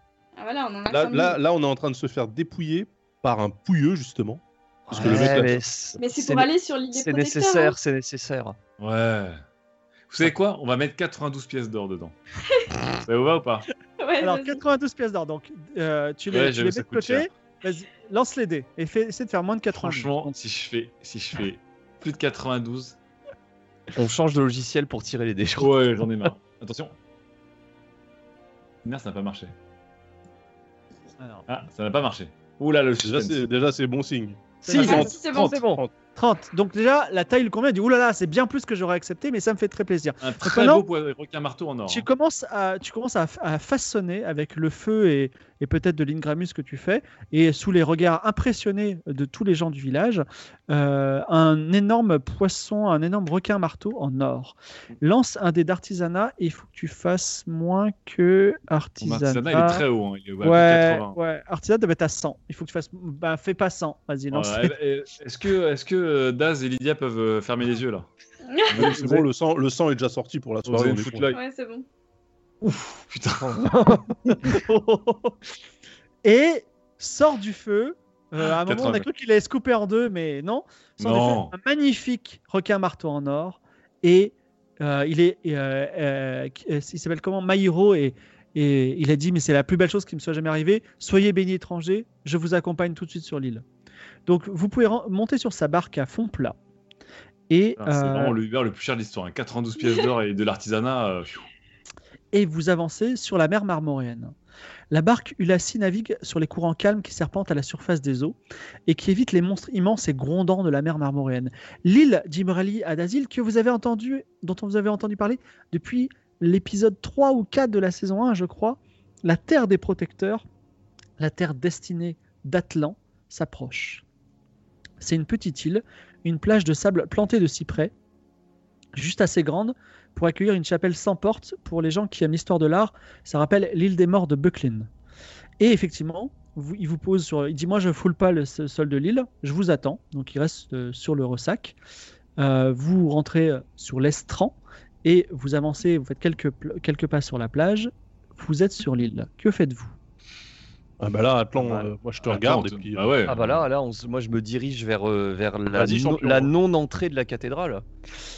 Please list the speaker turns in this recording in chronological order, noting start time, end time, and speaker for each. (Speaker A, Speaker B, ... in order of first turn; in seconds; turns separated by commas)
Speaker A: 0.4-1.4, Speaker B: 0.9-5.7, Speaker C: 4.9-8.6, Speaker A: 6.0-7.8, Speaker D: 8.8-9.4, Speaker D: 10.1-12.2, Speaker D: 13.1-13.7, Speaker A: 14.0-14.6, Speaker E: 14.2-20.4, Speaker D: 16.3-17.3, Speaker D: 19.7-23.0, Speaker C: 23.9-26.3, Speaker D: 25.6-26.9, Speaker D: 28.8-29.5, Speaker E: 31.2-31.4, Speaker D: 31.5-33.4, Speaker B: 33.0-35.9, Speaker E: 34.6-35.1, Speaker C: 34.7-35.8, Speaker A: 34.8-35.6, Speaker E: 36.2-40.9, Speaker D: 40.2-42.1, Speaker E: 41.9-59.9, Speaker D: 59.0-61.2, Speaker E: 60.4-64.8, Speaker D: 64.3-68.1, Speaker A: 68.5-68.9, Speaker D: 68.7-69.3, Speaker B: 68.7-71.3, Speaker D: 70.7-71.4, Speaker A: 71.3-71.9, Speaker D: 72.6-73.6, Speaker C: 73.4-75.4, Speaker E: 76.2-93.6, Speaker D: 78.4-79.1, Speaker D: 81.0-81.5, Speaker E: 94.3-96.6, Speaker E: 97.5-98.4, Speaker D: 97.8-101.5, Speaker E: 102.3-104.3, Speaker E: 104.9-108.4, Speaker E: 108.9-120.5, Speaker E: 121.2-124.0, Speaker E: 125.0-127.9, Speaker E: 128.9-134.9, Speaker E: 135.6-141.8, Speaker E: 142.4-149.9, Speaker B: 151.0-153.2, Speaker D: 151.6-153.7, Speaker C: 153.3-157.8, Speaker B: 155.7-156.5